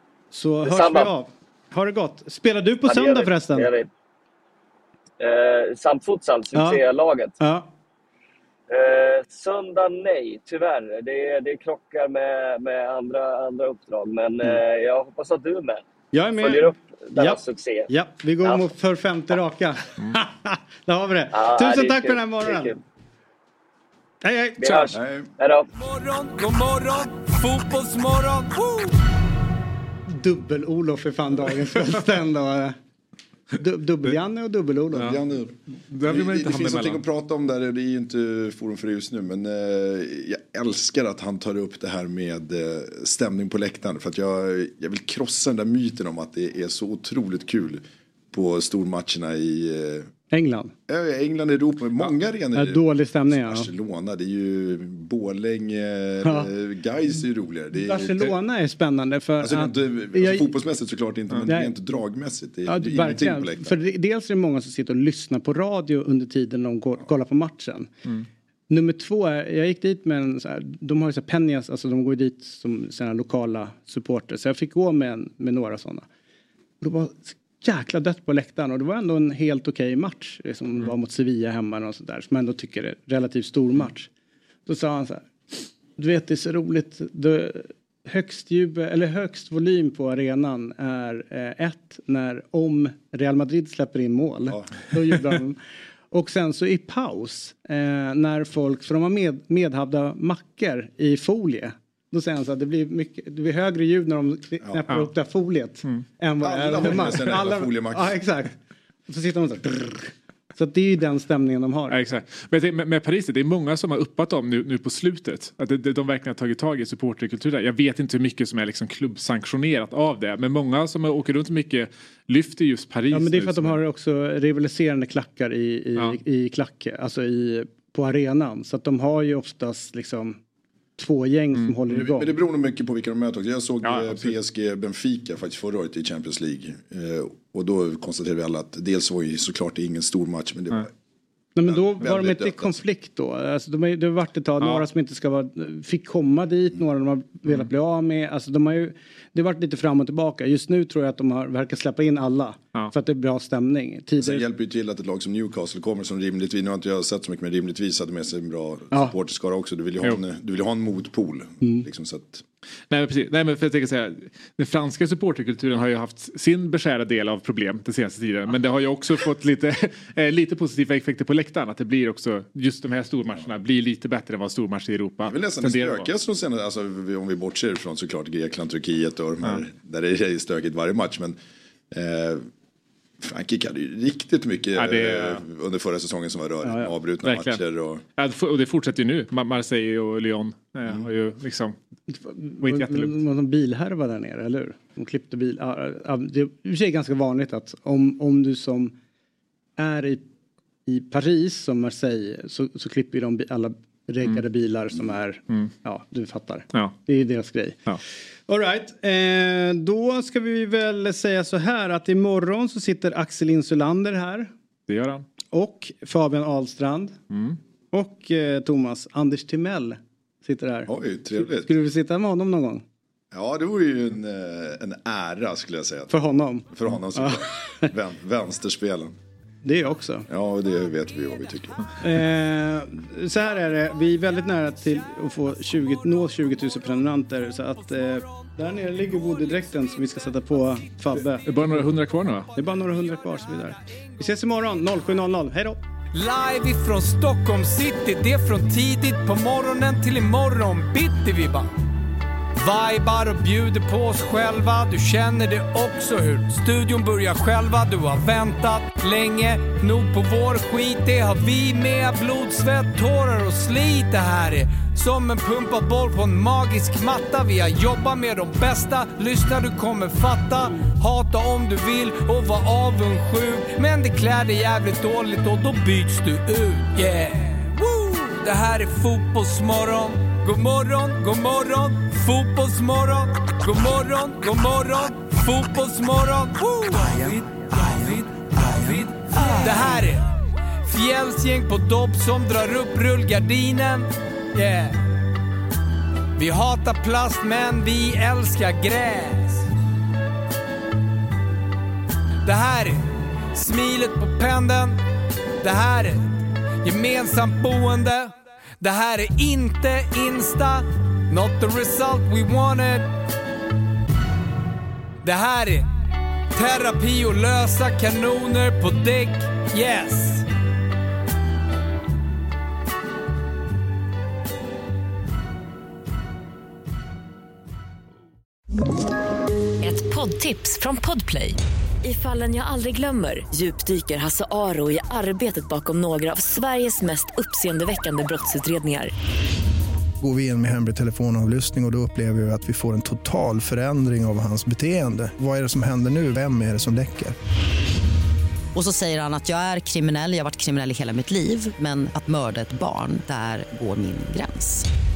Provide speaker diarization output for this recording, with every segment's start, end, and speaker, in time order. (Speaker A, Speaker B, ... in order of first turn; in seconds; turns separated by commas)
Speaker A: 0.3-3.7, Speaker B: 0.6-1.1, Speaker B: 2.9-3.9, Speaker B: 5.2-7.3, Speaker A: 6.5-6.8, Speaker A: 7.4-7.7, Speaker B: 8.7-15.8, Speaker A: 16.1-22.7, Speaker B: 16.3-17.9, Speaker B: 18.4-18.7, Speaker B: 21.3-22.8, Speaker A: 24.2-24.9, Speaker B: 24.6-25.7, Speaker C: 24.9-25.3, Speaker D: 25.7-28.9, Speaker A: 30.1-32.8, Speaker A: 33.5-35.1, Speaker C: 34.9-50.1, Speaker E: 35.9-37.0, Speaker A: 50.3-50.7, Speaker C: 50.9-58.3, Speaker A: 52.5-53.7, Speaker A: 56.2-56.5, Speaker A: 57.7-60.5, Speaker C: 59.4-63.7, Speaker A: 61.5-61.7, Speaker A: 62.7-67.9, Speaker A: 68.7-76.0, Speaker A: 76.8-84.1, Speaker A: 84.7-85.3, Speaker A: 86.0-95.6, Speaker A: 96.1-108.5, Speaker C: 106.4-108.2, Speaker A: 109.1-112.0, Speaker E: 111.9-123.8, Speaker A: 123.1-130.4, Speaker A: 131.0-132.3, Speaker C: 131.9-140.9, Speaker E: 133.8-134.3, Speaker A: 141.6-154.4, Speaker C: 141.7-142.8, Speaker E: 144.6-144.8, Speaker C: 154.2-162.4, Speaker A: 161.6-161.9, Speaker E: 162.9-176.1, Speaker C: 175.2-181.4, Speaker C: 181.9-182.5, Speaker C: 183.2-188.0, Speaker E: 184.8-185.4, Speaker A: 186.6-186.9, Speaker E: 187.2-187.6, Speaker E: 188.2-191.8, Speaker A: 192.1-198.9, Speaker E: 192.6-193.2, Speaker A: 199.8-200.2, Speaker A: 200.9-207.9, Speaker A: 208.5-214.5, Speaker E: 214.9-215.2, Speaker A: 215.5-217.2, Speaker E: 217.3-217.6, Speaker A: 217.9-222.8, Speaker C: 220.9-221.7, Speaker C: 223.3-226.1, Speaker A: 226.1-227.9, Speaker C: 226.7-229.2, Speaker A: 229.6-230.3, Speaker C: 230.3-231.8, Speaker A: 232.0-241.9, Speaker D: 235.8-236.3, Speaker D: 238.0-241.0, Speaker E: 241.4-242.5, Speaker A: 242.5-245.8, Speaker D: 243.5-244.0, Speaker D: 246.1-251.7, Speaker D: 252.6-290.3, Speaker D: 290.8-295.0, Speaker D: 296.4-299.7, Speaker D: 302.4-305.0, Speaker D: 305.6-313.1, Speaker D: 315.2-315.9, Speaker D: 316.5-320.4, Speaker F: 329.8-339.1, Speaker G: 340.2-347.3, Speaker H: 348.7-354.9